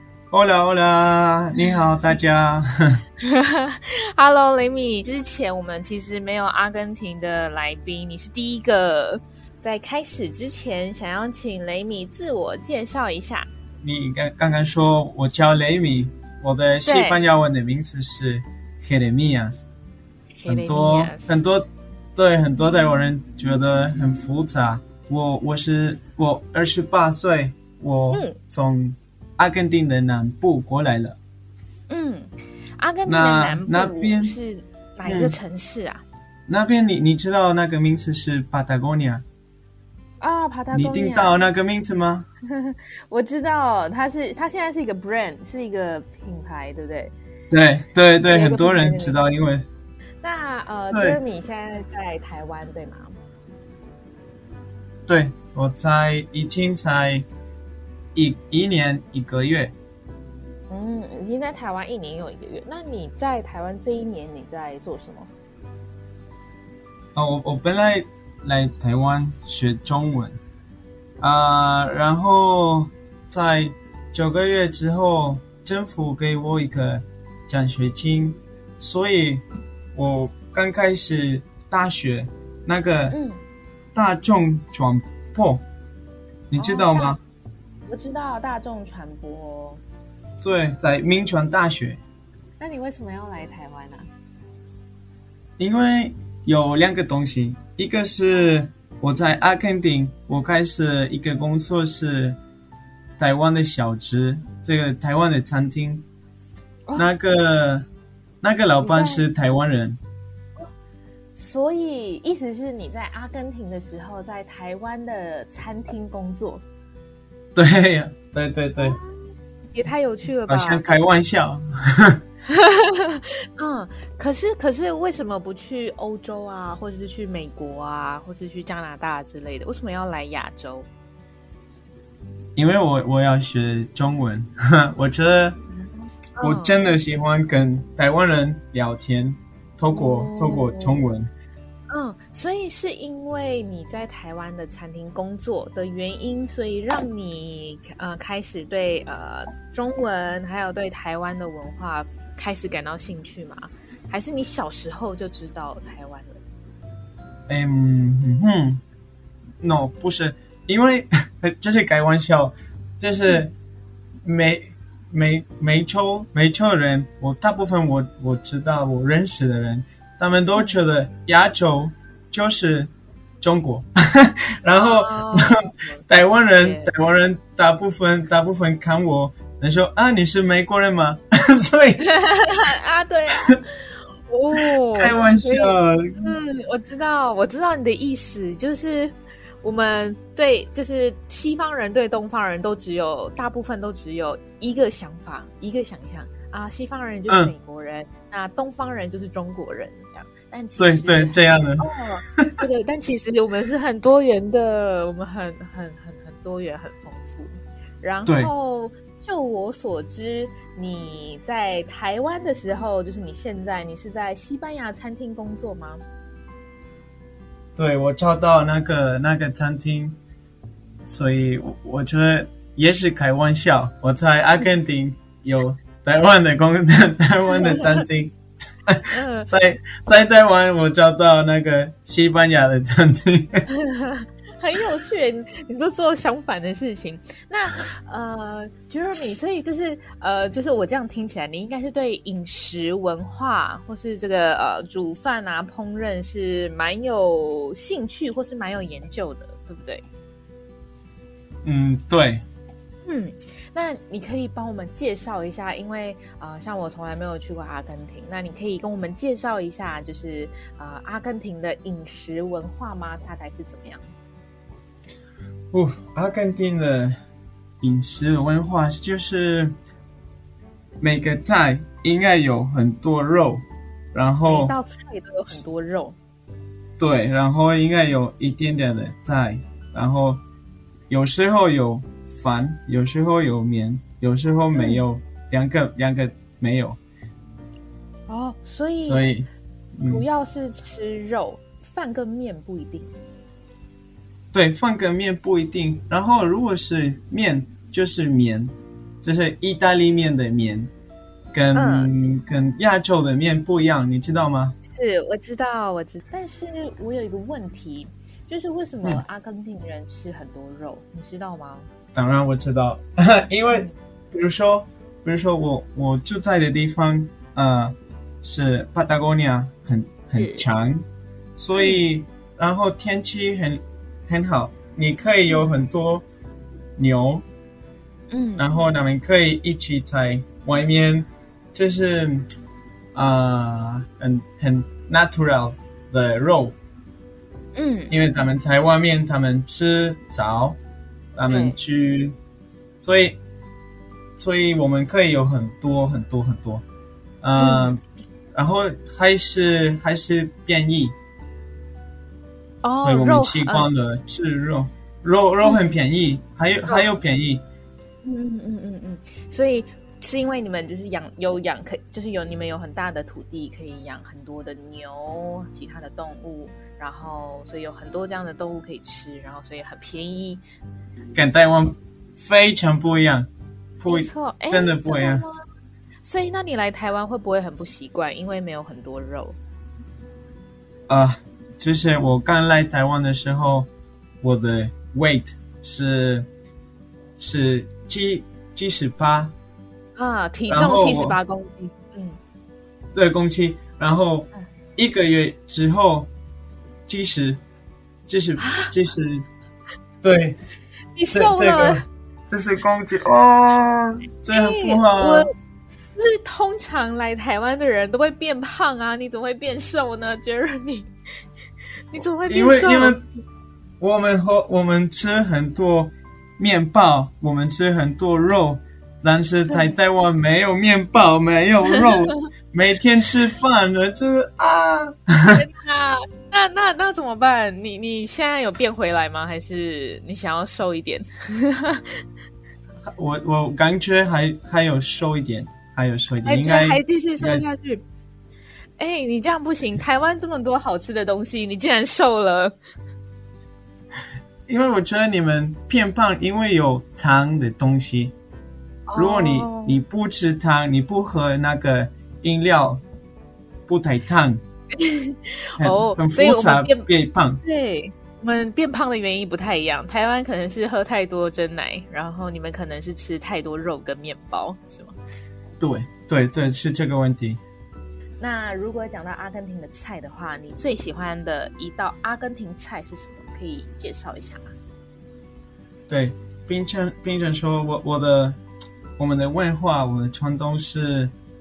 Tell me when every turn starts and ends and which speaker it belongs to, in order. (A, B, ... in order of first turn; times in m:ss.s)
0:00.3-0:03.0 A
0:03.2-0:13.5 B
0:13.8-0:19.6 A
0:16.8-0:17.2 B
0:20.4-0:21.4 B
0:20.5-0:31.2 A
0:28.1-0:28.4 B
0:31.9-0:36.0 B
0:33.1-0:34.4 A
0:35.0-0:35.4 A
0:36.5-0:39.2 A
0:40.2-0:41.4 B
0:40.7-0:42.3 A
0:42.5-0:47.1 B
0:47.5-0:49.6 A
0:48.3-0:49.2 B
0:50.2-0:53.1 B
0:50.9-0:51.2 A
0:55.1-0:57.3 A
0:58.2-0:59.7 A
1:00.7-1:05.3 B
1:07.2-1:10.3 A
1:11.2-1:19.4 A
1:20.0-1:23.2 A
1:23.1-1:23.4 B
1:24.0-1:25.6 A
1:26.5-1:27.2 A
1:26.6-1:27.2 B
1:27.9-1:29.8 B
1:30.4-1:32.0 A
1:32.6-1:34.1 B
1:35.6-1:42.4 A
1:43.2-1:46.0 A
1:47.0-1:47.9 A
1:48.4-1:50.0 A
1:48.8-1:49.2 B
1:51.4-1:56.6 B
1:57.6-1:59.0 A
1:58.8-2:00.8 B
2:00.5-2:02.2 A
2:02.5-2:10.9 B
2:12.6-2:15.6 A
2:16.4-2:16.8 B
2:16.4-2:21.3 A
2:19.9-2:21.1 B
2:21.9-2:36.4 B
2:37.5-2:38.8 A
2:39.6-2:43.5 A
2:44.2-3:02.0 A
2:54.7-2:56.9 B
3:02.0-3:36.0 B
3:04.6-3:06.4 A
3:17.3-3:17.5 A
3:20.8-3:22.6 A
3:37.8-3:40.2 A
3:41.1-3:48.3 A
3:47.5-3:48.0 B
3:48.9-3:53.6 A
3:49.1-3:49.5 B
3:53.8-4:10.0 B
4:11.6-4:12.4 A
4:13.1-4:24.1 B
4:25.7-4:27.2 A
4:27.8-4:29.7 A
4:31.0-4:34.8 A
4:34.5-4:36.2 B
4:37.0-4:40.4 A
4:41.1-4:47.0 A
4:44.8-4:45.0 B
4:48.3-4:49.2 B
4:49.0-4:50.3 A
4:50.1-4:53.1 B
4:54.5-4:58.7 A
4:59.2-5:00.9 A
5:01.5-5:04.8 A
5:01.7-5:02.2 B
5:04.9-5:11.9 B
5:12.2-5:21.0 A
5:20.4-5:20.6 B
5:21.6-5:26.2 A
5:21.8-5:22.1 B
5:27.0-5:27.4 A
5:28.3-5:28.7 B
5:28.6-5:32.5 A
5:33.2-5:36.8 A
5:37.8-5:38.2 B
5:38.1-5:40.8 A
5:41.4-5:42.4 A
5:41.5-5:41.8 B
5:43.0-5:43.4 A
5:44.4-5:46.8 A
5:47.4-5:48.0 A
5:47.6-5:47.9 B
5:48.5-5:51.1 A
5:52.8-5:53.9 B
5:53.0-5:57.6 A
5:55.6-5:56.0 B
5:56.9-5:57.3 B
5:58.2-6:10.6 B
6:11.3-6:13.5 A
6:14.0-6:15.4 A
6:14.1-6:15.6 B
6:16.2-6:19.6 B
6:21.1-6:23.9 A
6:24.4-6:26.5 A
6:27.4-6:29.5 A
6:30.2-6:32.4 B
6:30.7-6:31.4 A
6:33.2-6:36.3 A
6:37.1-6:37.6 A
6:38.3-6:39.5 A
6:38.6-6:38.9 B
6:40.2-6:40.6 A
6:41.2-6:42.0 B
6:41.3-6:45.5 A
6:44.5-6:45.5 B
6:46.2-6:51.1 B
6:52.1-6:53.2 B
6:52.5-6:53.2 A
6:54.0-7:05.6 A
7:02.0-7:02.4 B
7:05.5-7:12.2 B
7:13.1-7:17.6 A
7:16.4-7:18.0 B
7:19.0-7:22.8 B
7:24.7-7:28.3 A
7:29.1-7:30.0 B
7:29.2-7:33.0 A
7:33.9-7:34.6 A
7:35.0-7:37.1 B
7:35.8-7:37.6 A
7:37.6-7:45.2 B
7:45.8-7:47.6 A
7:48.4-7:54.7 B
7:56.1-7:58.6 A
7:59.2-8:01.3 A